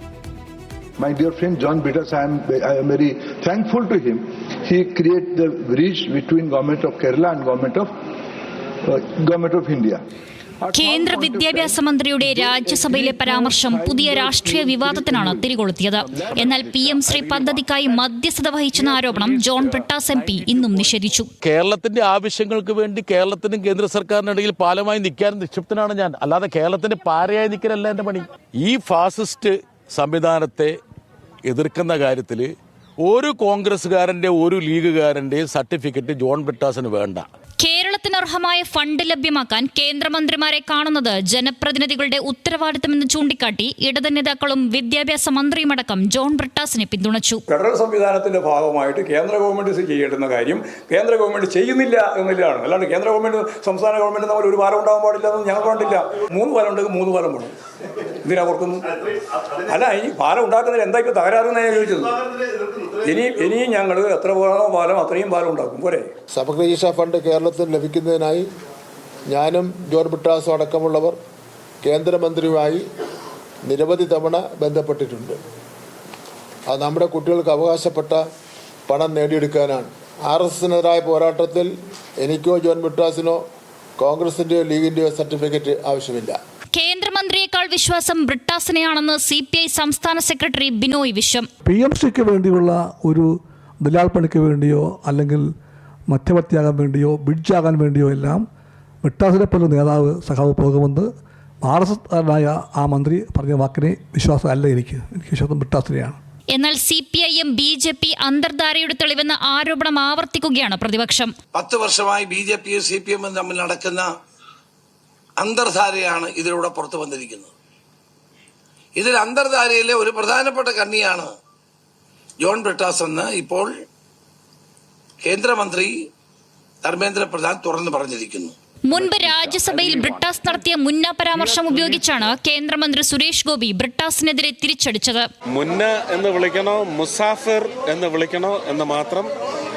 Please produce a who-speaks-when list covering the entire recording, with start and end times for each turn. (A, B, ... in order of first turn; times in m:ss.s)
0:01.0-0:07.9 A
0:08.8-0:10.0 A
0:10.6-0:15.6 A
0:10.7-0:21.3 B
0:16.1-0:17.0 A
0:21.4-0:30.8 C
0:31.5-0:37.3 C
0:37.6-0:47.4 B
0:47.5-0:57.5 D
0:58.2-0:58.9 D
0:59.7-1:02.2 D
1:03.0-1:06.1 D
1:06.3-1:08.5 E
1:09.3-1:11.2 E
1:11.8-1:12.8 E
1:13.7-1:15.4 E
1:16.7-1:18.2 E
1:18.9-1:23.4 E
1:24.0-1:26.4 E
1:26.8-1:31.5 B
1:31.7-1:33.3 F
1:33.8-1:35.4 F
1:36.1-1:38.4 F
1:39.0-1:41.1 F
1:41.6-1:46.2 F
1:46.5-1:51.3 B
1:51.5-1:54.1 G
1:55.4-1:57.5 G
1:59.0-2:01.3 G
2:02.4-2:03.7 G
2:05.2-2:06.0 G
2:06.8-2:08.5 G
2:08.9-2:15.3 B
2:15.6-2:19.3 H